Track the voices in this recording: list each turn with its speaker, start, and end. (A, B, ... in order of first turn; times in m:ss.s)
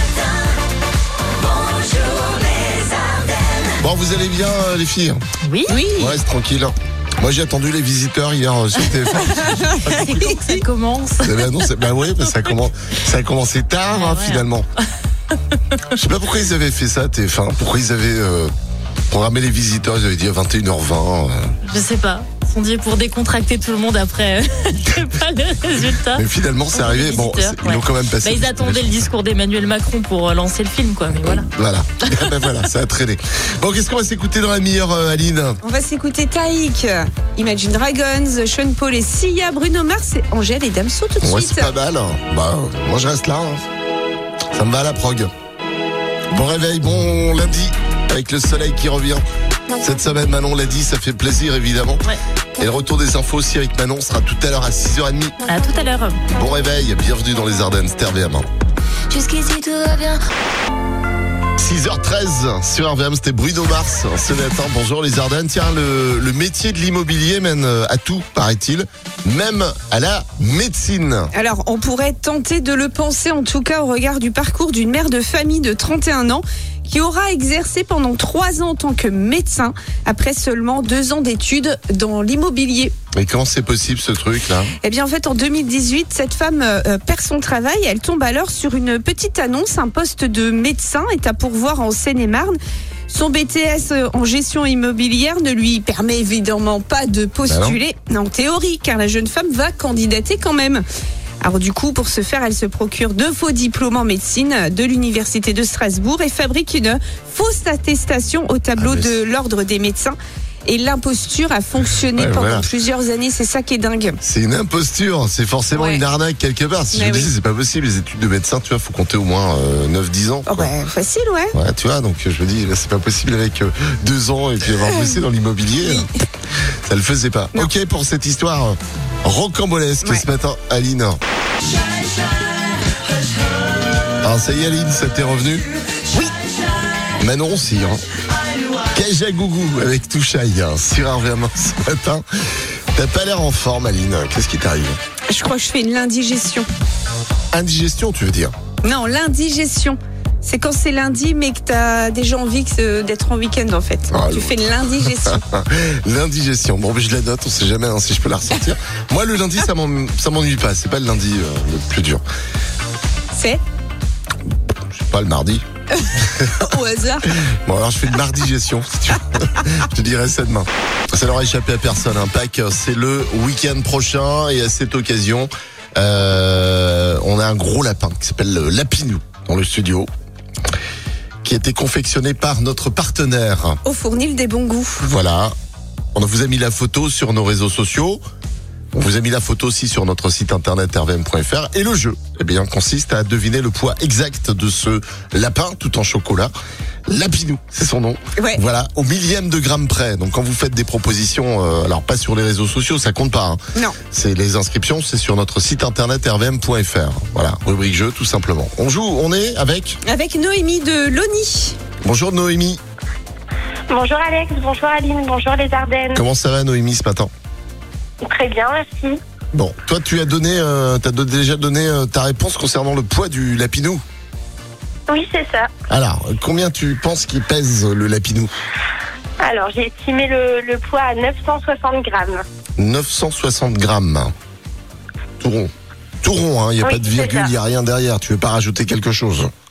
0:03.8-0:05.2 A
0:05.4-0:05.8 B
0:05.7-0:06.2 C
0:06.0-0:10.2 A
0:09.4-0:10.6 C
0:09.9-0:12.6 B
0:11.2-0:14.7 A
0:13.9-0:14.5 B
0:16.0-0:18.5 A
0:19.1-0:21.5 A
0:21.7-0:31.5 B
0:26.1-0:29.0 A
0:31.2-0:35.6 A
0:35.6-0:41.7 C
0:41.2-0:43.6 A
0:44.5-0:45.3 A
0:46.3-0:49.2 A
0:49.8-0:52.0 A
0:52.6-0:55.4 A
0:55.5-0:56.2 B
0:56.3-0:58.5 A
0:59.5-1:00.1 B
1:01.6-1:11.3 A
1:11.3-1:22.9 C
1:23.1-1:24.7 A
1:24.8-1:32.6 C
1:33.1-1:40.8 C
1:37.5-1:37.8 A
1:41.4-1:54.2 C
1:48.8-1:49.2 A
1:52.2-1:52.7 A
1:54.2-2:00.7 A
1:55.7-1:56.0 C
1:56.9-1:57.3 C
2:00.5-2:01.5 C
2:01.5-2:06.1 A
2:05.8-2:06.1 C
2:06.9-2:11.2 A
2:14.2-2:15.7 A
2:17.2-2:18.0 A
2:18.9-2:22.2 A
2:22.9-2:25.0 A
2:25.3-2:26.7 C
2:27.5-2:28.5 A
2:28.8-2:35.4 C
2:34.1-2:42.2 A
2:43.3-2:43.6 C
2:44.9-2:45.6 A
2:46.0-2:47.3 C
2:47.5-3:00.1 A
3:01.4-3:03.8 A
3:03.8-3:05.0 C
3:05.0-3:05.6 A
3:06.2-3:08.2 A
3:08.9-3:16.5 A
3:17.1-3:23.6 A
3:24.1-3:30.0 A
3:30.0-3:31.8 C
3:32.0-3:32.8 A
3:33.9-3:36.2 D
3:36.1-3:37.3 A
3:38.2-3:39.2 D
3:39.5-3:44.0 A
3:45.1-3:45.7 D
3:45.9-3:48.5 A
3:49.4-3:52.4 D
3:52.8-3:54.3 A
3:55.4-3:59.5 A
3:56.8-3:57.5 D